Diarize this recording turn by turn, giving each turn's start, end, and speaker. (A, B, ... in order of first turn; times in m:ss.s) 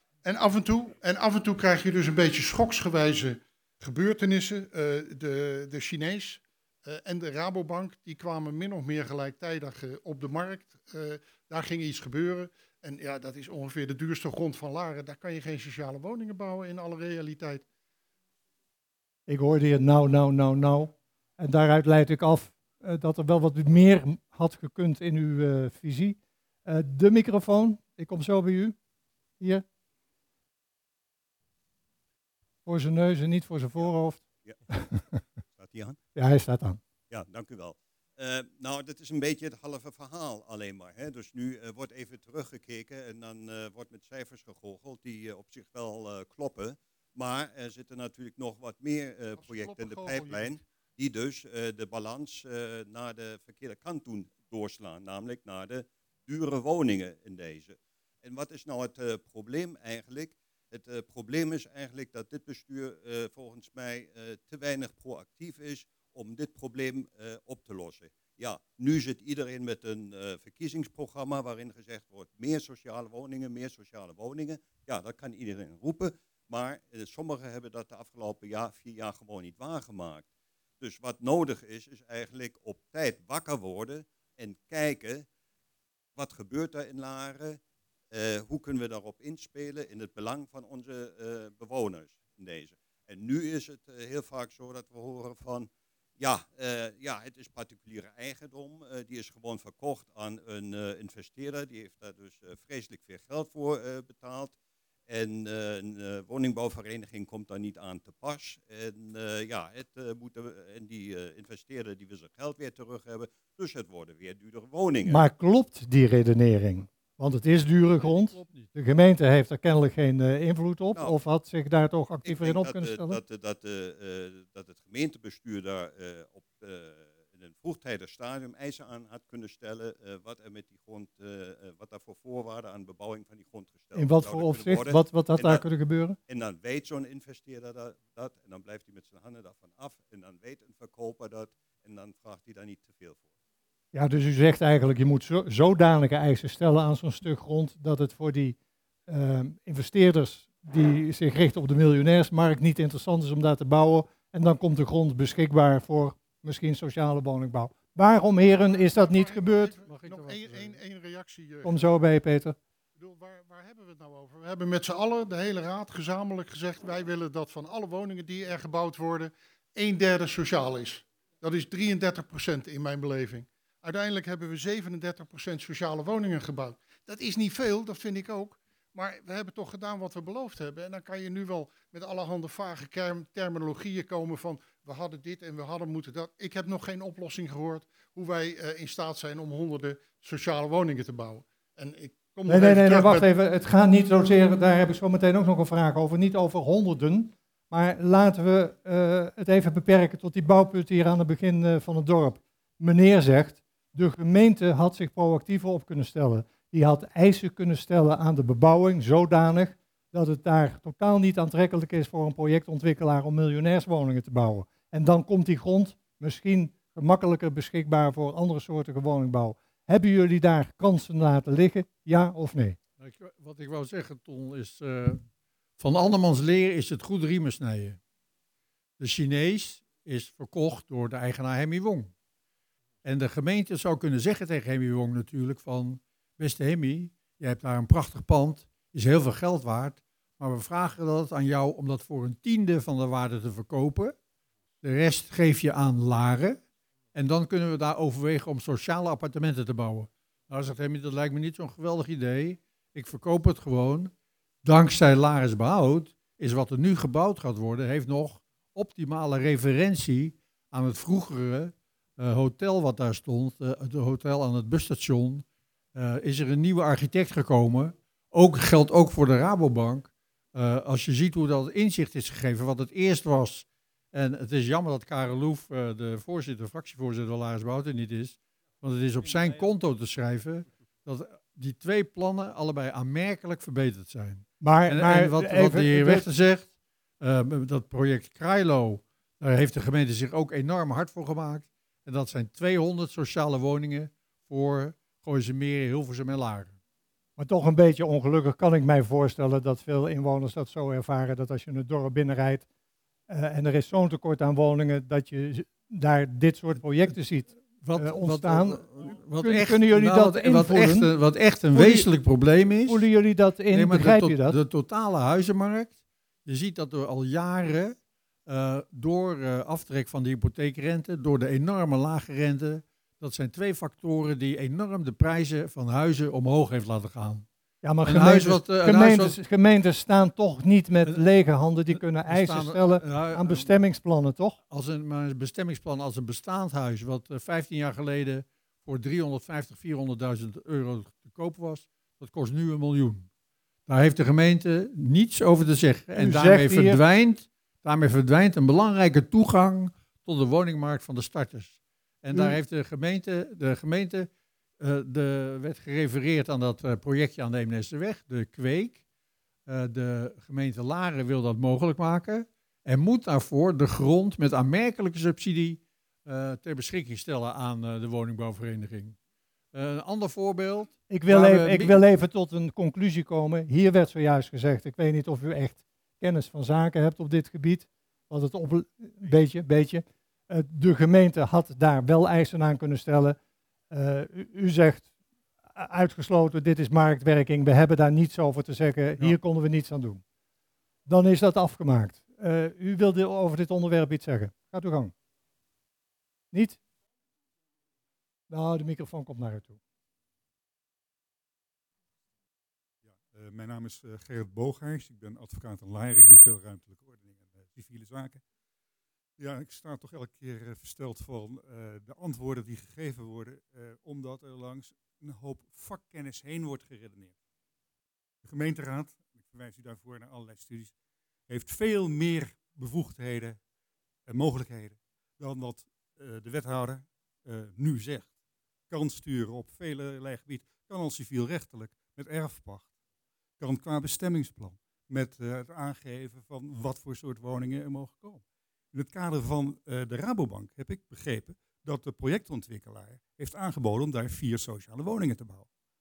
0:00.2-0:17.6 A
0:19.3-0:28.7 B
0:29.4-0:29.6 B
0:32.6-0:35.0 B
0:35.6-0:36.0 C
0:36.2-0:36.8 B
0:37.1-1:20.2 C
1:20.8-1:25.2 C
1:26.2-1:27.6 C
1:28.1-1:35.7 C
1:36.2-1:44.5 C
1:45.1-1:55.2 C
1:55.1-2:03.2 B
1:58.0-1:58.7 D
2:02.2-2:15.6 C
2:13.9-2:16.2 B
2:16.3-2:23.3 C
2:23.9-2:28.6 B
2:29.1-2:39.8 B
2:39.0-2:41.8 A
2:39.8-2:40.8 D
2:41.6-2:42.6 B
2:43.0-3:13.2 A
3:12.5-3:42.8 B
3:43.0-3:45.2 D
3:45.8-3:48.0 D
3:49.0-3:52.1 D
3:53.0-4:04.1 D
4:04.8-4:06.6 D
4:07.1-4:14.1 D
4:14.6-4:46.7 D
4:39.3-4:39.6 C
4:44.6-4:46.3 B
4:47.2-4:56.7 D
4:57.4-5:02.6 B
5:03.3-5:11.1 B
5:07.8-5:13.1 D
5:11.7-5:12.1 B
5:12.9-5:14.6 B
5:13.7-5:15.9 D
5:16.4-5:27.4 D
5:27.8-5:34.6 B
5:28.0-5:29.4 D
5:32.0-5:33.7 D
5:34.7-5:43.3 D
5:43.9-5:54.3 D
5:46.2-5:47.0 B
5:52.3-5:52.6 B
5:54.8-5:59.0 D
5:59.7-6:09.2 D
6:09.7-6:11.9 D
6:11.1-6:23.4 B
6:23.9-6:25.1 B
6:25.7-6:30.2 B
6:31.0-6:35.1 B
6:36.5-6:36.8 B
6:38.5-6:39.8 B
6:43.2-6:48.4 E
6:49.4-6:57.3 E
6:58.4-7:00.9 E
7:01.5-7:03.6 E
7:04.3-7:08.3 E
7:08.9-7:12.9 E
7:13.6-7:18.4 E
7:18.9-7:25.7 E